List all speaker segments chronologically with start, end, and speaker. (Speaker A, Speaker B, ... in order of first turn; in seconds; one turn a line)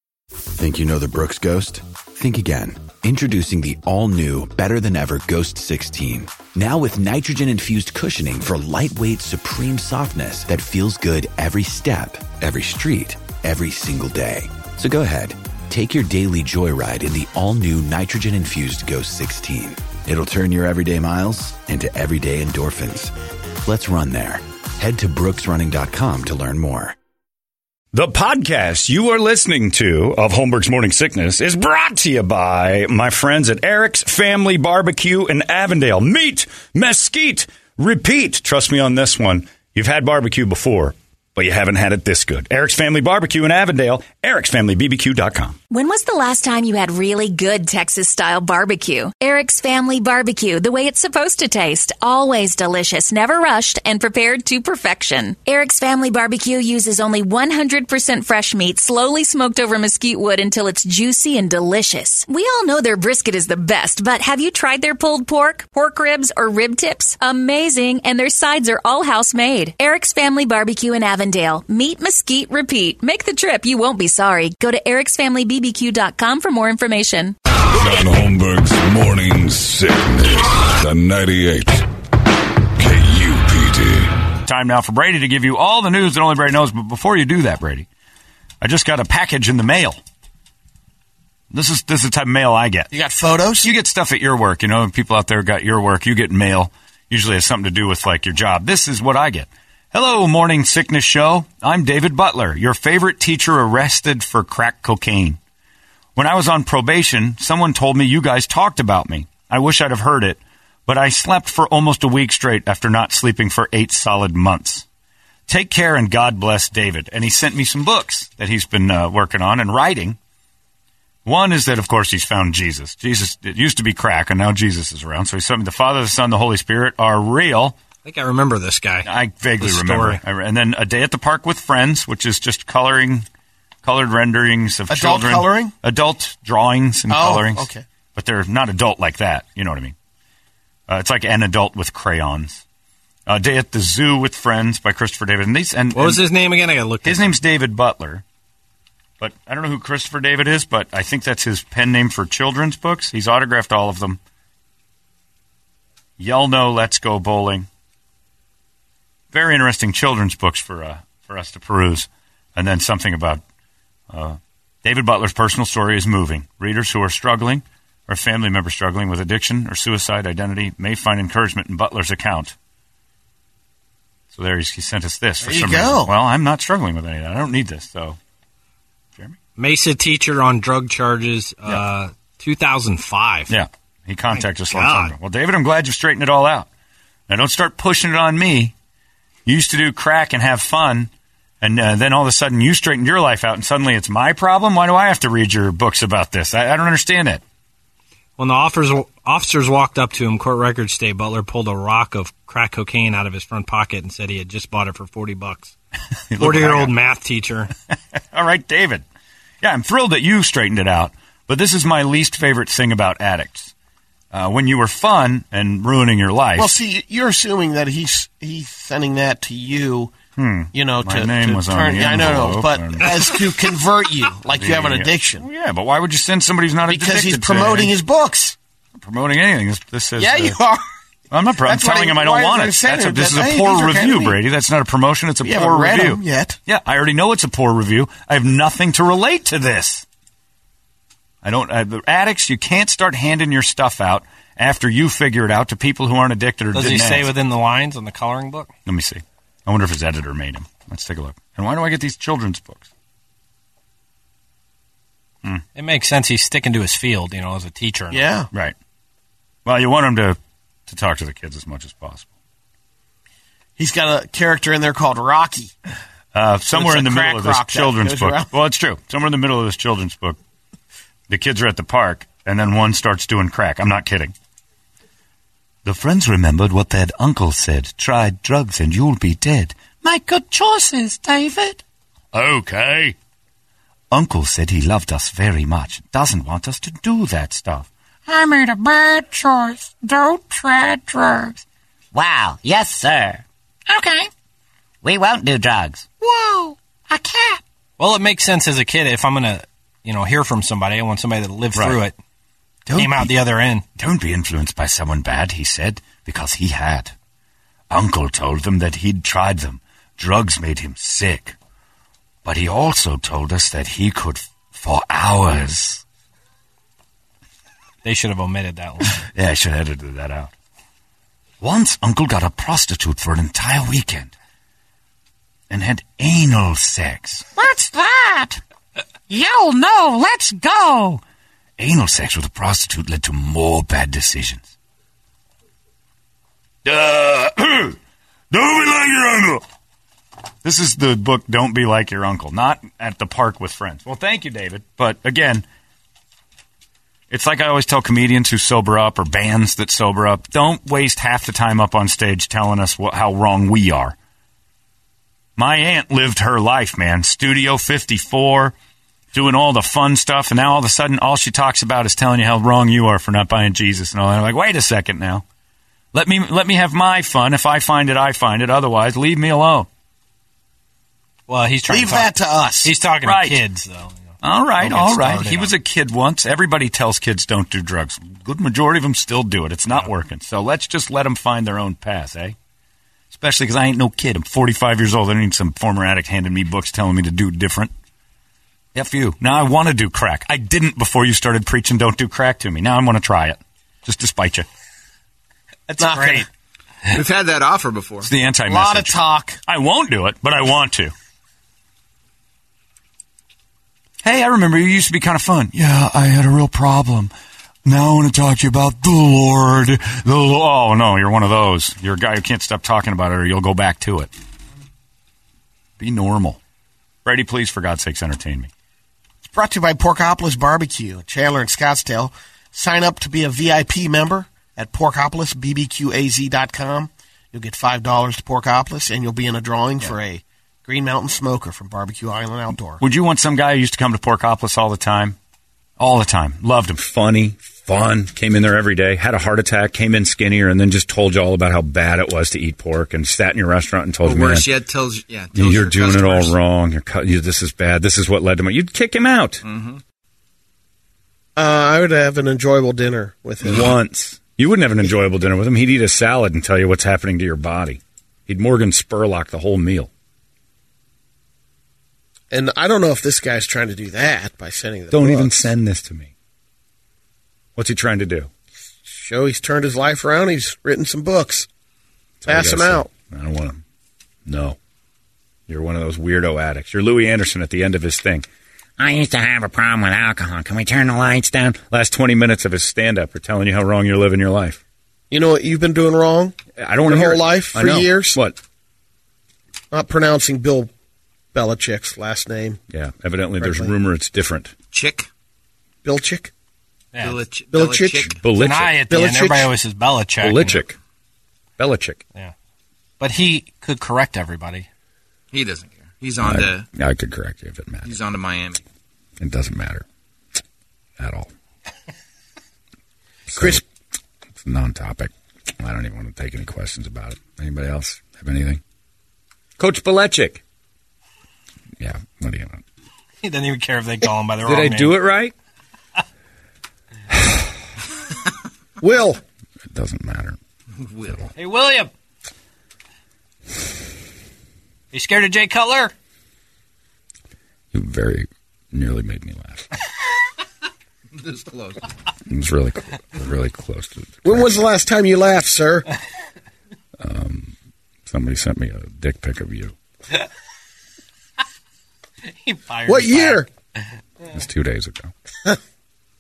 Speaker A: 0.6-23.1
Speaker A: 23.6-26.9
Speaker B: 27.9-45.6
Speaker C: 45.7-77.4
Speaker D: 77.7-81.8
Speaker D: 82.8-84.1
Speaker B: 84.5-87.9
Speaker B: 88.6-90.0
Speaker B: 91.5-92.9
Speaker E: 92.9-93.7
Speaker B: 93.6-105.4
Speaker B: 106.2-114.8
Speaker B: 115.5-120.2
Speaker B: 121.2-127.8
Speaker F: 128.0-130.2
Speaker B: 129.0-133.2
Speaker B: 133.8-139.9
Speaker E: 134.9-135.7
Speaker E: 137.1-137.8
Speaker B: 140.9-142.6
Speaker B: 143.3-146.2
Speaker F: 145.9-147.3
Speaker B: 147.0-148.2
Speaker B: 149.2-154.2
Speaker B: 156.2-157.7
Speaker B: 159.3-163.4
Speaker B: 164.1-172.5
Speaker B: 174.3-178.2
Speaker E: 175.4-176.1
Speaker F: 179.6-183.5
Speaker B: 183.5-186.7
Speaker F: 184.3-185.2
Speaker B: 187.3-188.7
Speaker B: 189.5-191.1
Speaker B: 191.6-197.4
Speaker F: 198.4-205.7
Speaker B: 206.3-206.9
Speaker F: 206.3-207.7
Speaker B: 208.3-209.0
Speaker B: 209.6-213.7
Speaker B: 214.3-216.7
Speaker E: 216.6-220.1
Speaker B: 220.4-223.3
Speaker E: 220.7-225.4
Speaker B: 224.5-227.9
Speaker E: 226.9-228.6
Speaker B: 228.9-230.6
Speaker E: 230.2-230.8
Speaker B: 231.3-240.0
Speaker E: 231.6-234.4
Speaker E: 235.4-236.6
Speaker B: 241.4-247.3
Speaker F: 246.7-248.7
Speaker B: 248.8-252.9
Speaker F: 255.7-258.2
Speaker E: 258.1-258.5
Speaker B: 259.6-262.2
Speaker E: 263.8-265.7
Speaker B: 266.3-270.4
Speaker E: 266.7-268.5
Speaker B: 271.3-274.3
Speaker B: 275.9-281.8
Speaker B: 282.3-283.1
Speaker B: 284.1-287.9
Speaker G: 288.3-291.5
Speaker B: 288.5-291.1
Speaker G: 292.1-294.3
Speaker G: 295.0-297.6
Speaker F: 298.0-302.1
Speaker B: 302.9-303.4
Speaker F: 302.9-303.8
Speaker B: 304.0-307.1
Speaker B: 307.9-311.6
Speaker B: 312.4-316.0
Speaker F: 318.0-319.2
Speaker B: 319.2-320.5
Speaker B: 321.6-324.3
Speaker B: 325.7-328.6
Speaker B: 329.3-331.2
Speaker B: 331.8-334.7
Speaker B: 336.9-338.0
Speaker B: 338.5-339.6
Speaker B: 340.6-345.6
Speaker B: 347.3-354.1
Speaker B: 355.6-358.7
Speaker B: 359.3-365.4
Speaker B: 366.1-369.9
Speaker F: 371.5-372.3
Speaker E: 371.9-372.9
Speaker F: 372.8-375.7
Speaker B: 373.2-373.6
Speaker B: 374.4-382.6
Speaker B: 383.3-387.9
Speaker B: 388.9-394.7
Speaker F: 395.9-396.5
Speaker E: 396.0-396.5
Speaker H: 397.1-398.3
Speaker B: 398.2-401.1
Speaker E: 398.7-399.6
Speaker B: 404.2-407.3
Speaker B: 407.9-414.3
Speaker B: 416.0-416.6
Speaker B: 417.2-418.7
Speaker E: 419.4-433.0
Speaker B: 433.0-435.4
Speaker B: 436.0-444.7
Speaker H: 444.2-446.5
Speaker B: 445.5-449.6
Speaker H: 449.6-450.0
Speaker E: 451.6-453.9
Speaker B: 453.6-460.1
Speaker E: 462.5-465.7
Speaker B: 465.1-466.3
Speaker B: 467.8-468.5
Speaker E: 469.1-471.7
Speaker B: 472.4-473.8
Speaker E: 472.5-473.1
Speaker B: 474.5-474.8
Speaker B: 475.7-478.5
Speaker G: 479.0-481.6
Speaker B: 479.9-484.8
Speaker E: 485.3-488.4
Speaker B: 486.8-488.6
Speaker E: 489.9-490.9
Speaker E: 491.5-492.8
Speaker B: 492.9-494.7
Speaker E: 493.6-493.9
Speaker H: 494.9-495.3
Speaker E: 496.0-496.5
Speaker F: 497.1-497.4
Speaker H: 497.2-498.4
Speaker E: 497.7-498.4
Speaker B: 498.2-499.0
Speaker F: 498.5-500.8
Speaker E: 499.1-499.7
Speaker B: 500.4-501.0
Speaker B: 501.8-502.2
Speaker F: 503.2-504.9
Speaker H: 505.5-506.9
Speaker B: 506.4-508.1
Speaker H: 508.0-508.8
Speaker B: 509.4-510.0
Speaker B: 511.2-511.5
Speaker B: 513.5-513.8
Speaker E: 513.5-513.8
Speaker B: 514.6-518.8
Speaker B: 519.8-520.6
Speaker B: 522.0-522.8
Speaker F: 523.4-525.2
Speaker B: 524.6-525.5
Speaker E: 529.0-529.4
Speaker B: 529.9-530.6
Speaker F: 531.5-532.1
Speaker F: 535.1-536.1
Speaker B: 537.9-539.9
Speaker H: 541.3-542.0
Speaker B: 542.5-544.7
Speaker E: 544.4-546.1
Speaker B: 547.2-547.7
Speaker B: 548.3-549.9
Speaker F: 552.5-553.6
Speaker E: 553.0-553.7
Speaker B: 554.5-555.3